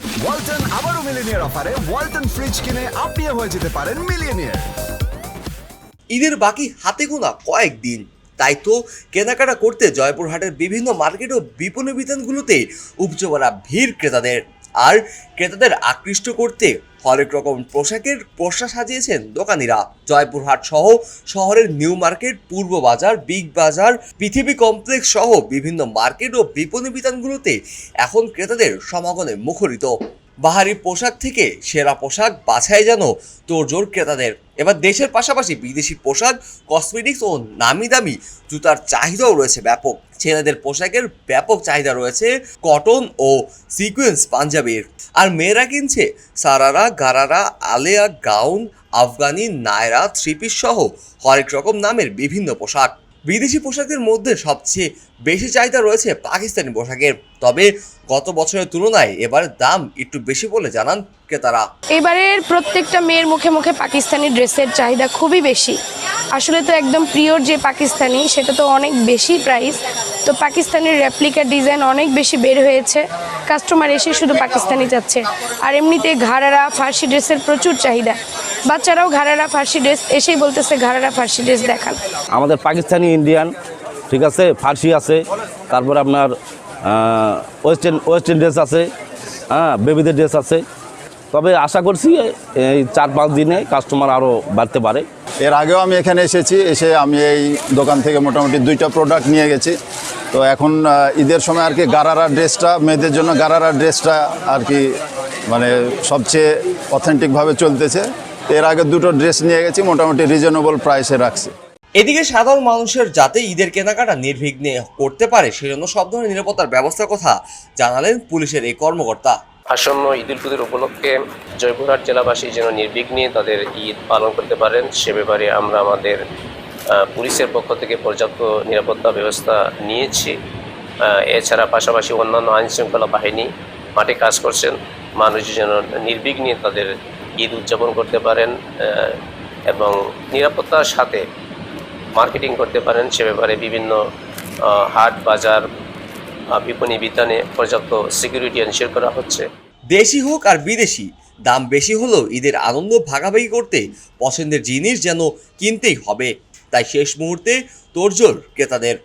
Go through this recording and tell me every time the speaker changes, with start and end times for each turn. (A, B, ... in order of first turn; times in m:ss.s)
0:00.2-0:04.7 A
0:06.1-0:29.9 B
0:30.4-1:01.6 B
1:02.0-1:05.8 C
1:06.3-1:22.0 C
1:22.3-1:23.5 D
1:24.1-1:25.2 D
1:25.7-1:26.3 D
1:26.8-1:28.9 D
1:29.5-1:30.6 D
1:31.3-1:35.1 D
1:35.4-1:39.8 E
1:40.3-1:44.8 E
1:45.5-1:51.5 E
1:52.0-1:59.4 B
1:59.7-2:06.2 F
2:07.0-2:10.3 F
2:11.0-2:19.1 F
2:19.7-2:21.2 F
2:22.2-2:24.0 F
2:24.7-2:25.6 F
2:26.6-2:29.5 F
2:29.9-2:39.0 B